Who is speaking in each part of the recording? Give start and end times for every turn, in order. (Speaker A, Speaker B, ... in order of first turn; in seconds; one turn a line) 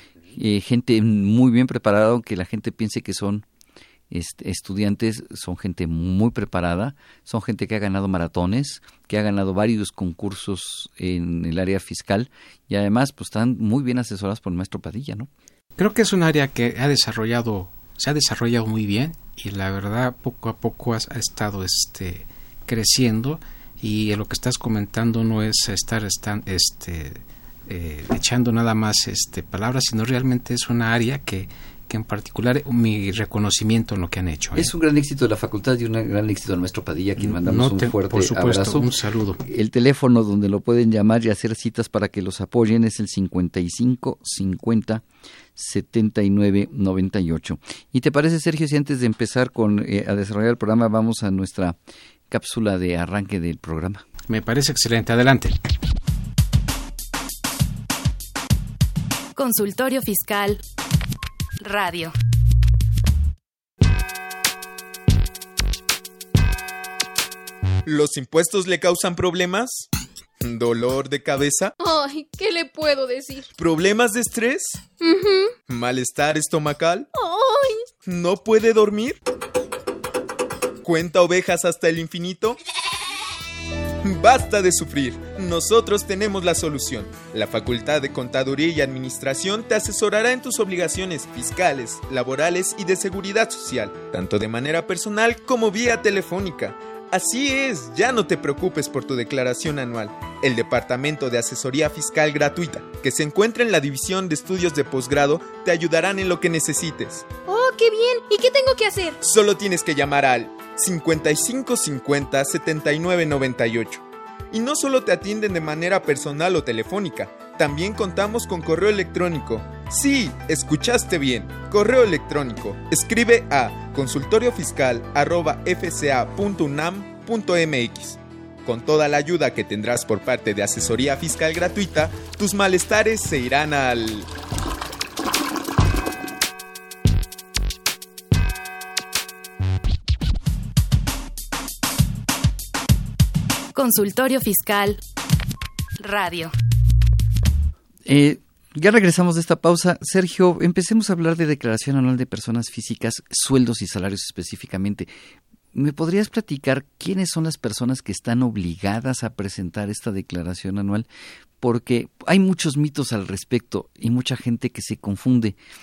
Speaker A: 0.3-3.4
Speaker A: 4.1-15.3
Speaker B: 15.8-34.7
Speaker A: 34.5-45.0
Speaker B: 37.2-39.4
Speaker A: 45.5-51.8
Speaker A: 52.3-54.0
Speaker B: 54.3-55.5
Speaker C: 59.4-60.6
Speaker C: 61.6-62.1
Speaker D: 67.8-69.9
Speaker D: 70.4-71.7
Speaker E: 71.8-73.5
Speaker D: 73.6-74.8
Speaker E: 75.0-75.5
Speaker D: 75.7-77.1
Speaker E: 77.1-77.8
Speaker D: 78.0-79.2
Speaker D: 80.8-82.6
Speaker D: 84.0-107.3
Speaker E: 107.5-109.1
Speaker D: 109.2-134.3
Speaker C: 143.7-145.0
Speaker C: 146.0-146.5
Speaker A: 148.1-155.1
Speaker A: 155.7-161.1
Speaker A: 161.6-165.6